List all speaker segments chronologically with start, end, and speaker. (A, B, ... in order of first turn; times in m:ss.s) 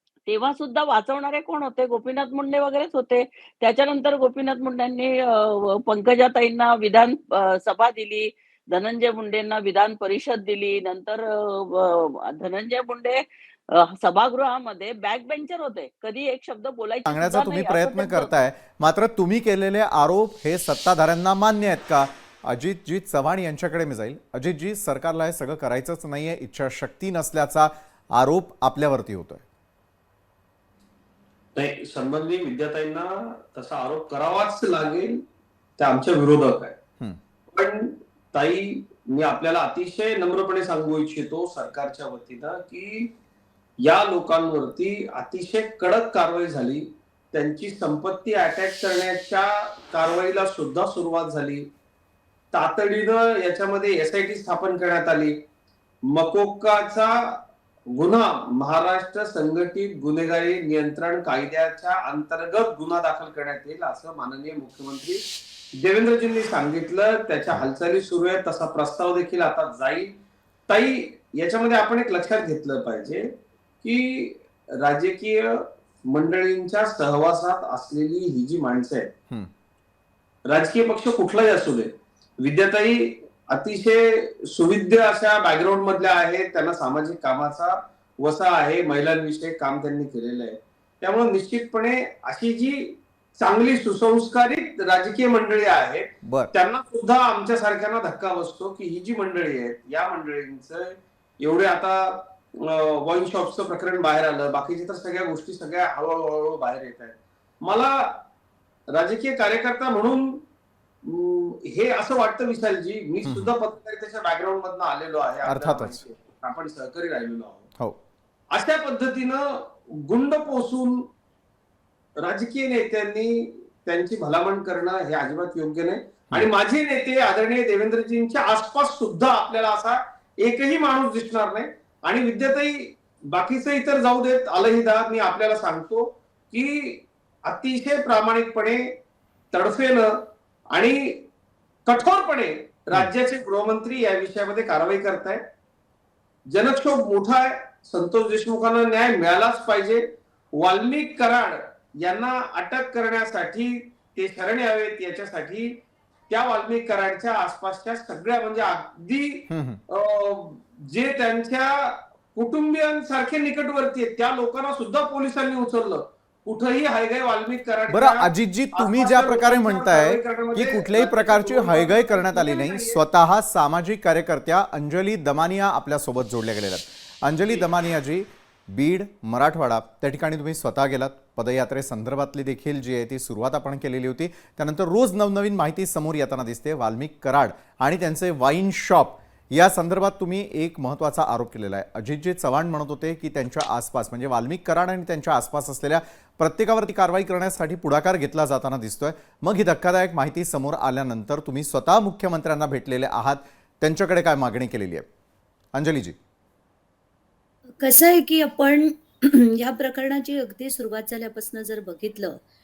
0:00.3-0:18.3 A
0:17.1-0:29.4 B
0:31.6-0:35.2 C
0:35.8-0:36.8 C
0:37.5-0:43.1 C
0:43.8-0:51.7 C
0:52.5-0:55.4 C
0:56.0-1:05.2 C
1:05.8-1:10.1 C
1:10.7-1:13.3 C
1:13.8-1:19.1 C
1:20.5-1:48.2 C
1:36.2-1:36.5 B
1:48.9-1:50.4 C
1:51.0-1:57.7 C
1:53.2-1:53.5 B
1:55.4-1:56.0 B
1:58.5-2:01.1 C
2:02.2-2:19.0 C
2:19.5-2:21.3 C
2:21.9-2:25.4 C
2:26.5-2:53.0 C
2:39.5-2:39.8 B
2:47.9-3:25.1 B
3:25.7-3:26.2 B
3:27.8-3:32.4 D